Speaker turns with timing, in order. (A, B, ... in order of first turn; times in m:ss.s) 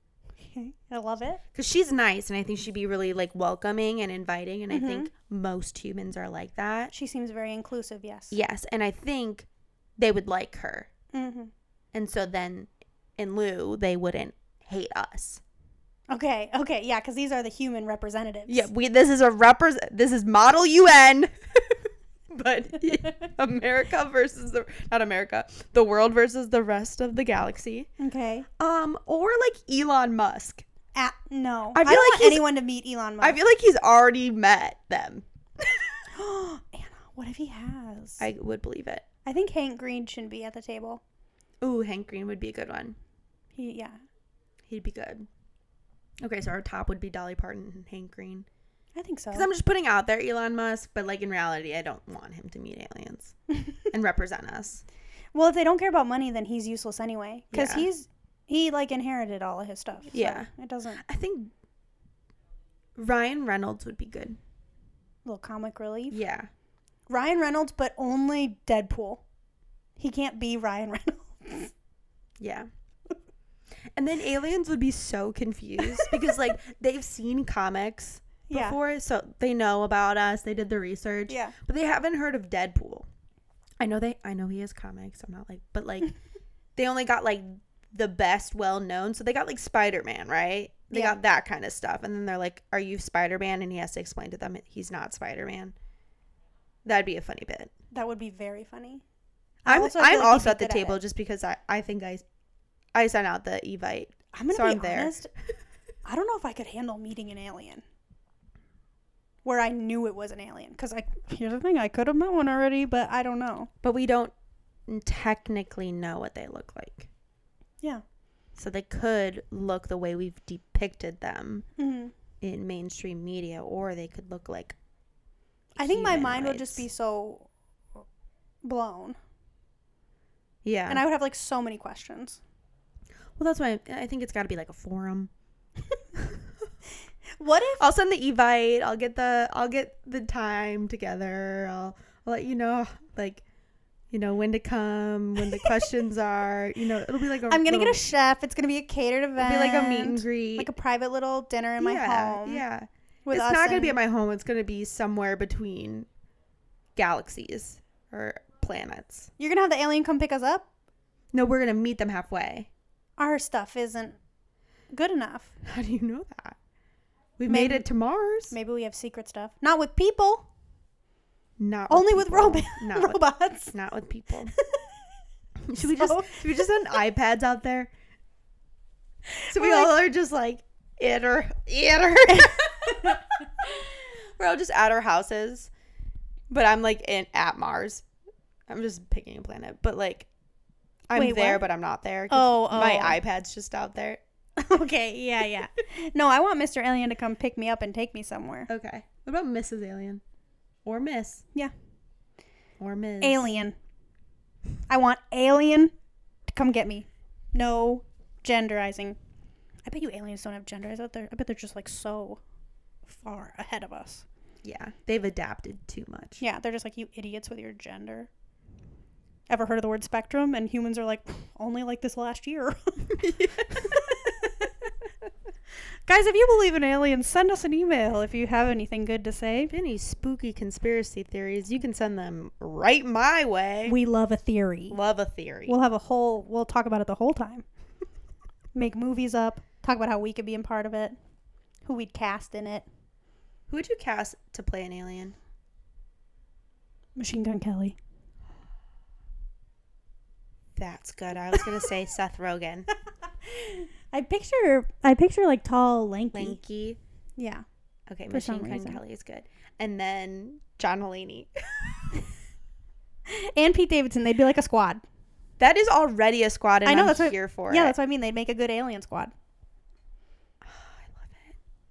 0:00.4-0:01.4 A
0:01.5-0:06.9 B
0:04.7-0:05.1 A
0:06.9-0:08.4 A
0:08.3-0:09.5 B
0:10.0-0:10.9 B
0:11.1-0:11.5 A
0:11.9-0:15.4 B
0:16.1-0:18.7 A
0:18.5-0:27.9 B
0:28.0-0:28.5 A
0:28.6-0:30.6 B
0:30.9-0:33.4 A
0:31.7-0:32.4 B
0:33.2-0:36.0 B
0:36.1-0:38.3 A
0:38.2-0:39.0 B
0:39.2-0:41.0 A
0:41.6-0:43.0 B
0:43.5-0:44.0 A
0:44.7-0:45.3 B
0:46.2-0:48.5 B
0:49.0-0:49.5 A
0:49.3-0:53.3 B
0:53.5-0:53.8 A
0:53.9-0:54.8 B
0:55.3-1:01.0 A
0:57.5-0:57.9 B
1:00.1-1:01.5 B
1:03.0-1:04.4 B
1:05.2-1:06.2 A
1:06.1-1:06.5 B
1:07.1-1:09.2 A
1:10.0-1:11.7 A
1:12.4-1:12.7 B
1:14.0-1:23.1 B
1:18.5-1:18.8 A
1:21.3-1:21.5 A
1:23.8-1:26.1 B
1:26.8-1:35.7 B
1:36.8-1:37.7 B
1:37.9-1:39.0 A
1:39.6-1:41.0 A
1:39.6-1:42.2 B
1:42.9-1:45.1 B
1:44.3-1:45.3 A
1:46.0-1:47.8 A
1:49.4-1:53.7 A
1:53.8-1:54.3 B
1:54.9-1:57.1 B
1:58.6-2:01.6 B
2:01.8-2:02.1 A
2:02.4-2:04.8 B
2:05.8-2:07.5 A
2:05.8-2:06.8 B
2:08.6-2:09.2 A
2:10.6-2:11.0 B
2:10.9-2:12.4 A
2:13.4-2:15.3 B
2:17.4-2:17.8 A
2:17.8-2:23.4 B
2:24.1-2:28.0 B
2:27.5-2:32.6 A
2:29.4-2:30.7 B
2:31.8-2:36.1 B
2:33.3-2:34.0 A
2:37.0-2:39.3 B
2:39.4-2:40.7 A
2:41.3-2:42.7 B
2:43.2-2:44.2 A
2:44.9-2:45.5 A
2:45.6-2:46.6 B
2:47.4-2:48.5 B
2:47.5-2:47.8 A
2:48.5-2:50.5 A
2:51.6-2:54.5 B
2:51.9-2:53.7 A
2:54.5-2:54.9 A
2:55.6-2:57.9 B
2:55.8-2:56.9 A
2:59.4-2:59.9 A
2:59.5-3:05.7 B
3:02.3-3:03.2 A
3:06.5-3:08.0 B
3:08.7-3:10.3 B
3:11.1-3:14.2 B
3:11.1-3:11.6 A
3:12.3-3:13.2 A
3:14.6-3:18.7 A
3:18.7-3:20.2 B
3:20.8-3:21.4 B
3:22.8-3:23.4 B
3:23.2-3:23.7 A
3:24.9-3:25.9 A
3:26.5-3:29.2 A
3:29.8-3:32.4 A
3:33.0-3:34.2 A
3:34.6-3:36.4 B
3:36.4-3:38.3 A
3:39.5-3:44.7 A
3:43.1-3:44.1 B
3:46.1-3:49.7 A
3:49.7-3:53.9 B
3:53.8-3:55.0 A
3:54.9-3:55.8 B
3:55.6-3:57.6 A
3:58.7-4:01.2 A
4:01.8-4:02.8 A
4:03.7-4:05.4 B
4:07.2-4:08.0 A
4:10.8-4:12.9 B
4:13.4-4:16.6 A
4:16.3-4:17.0 B
4:17.4-4:17.6 A
4:18.1-4:22.2 B
4:18.3-4:19.0 A
4:23.3-4:25.0 A
4:25.6-4:27.9 B
4:26.8-4:29.3 A
4:30.6-4:31.6 B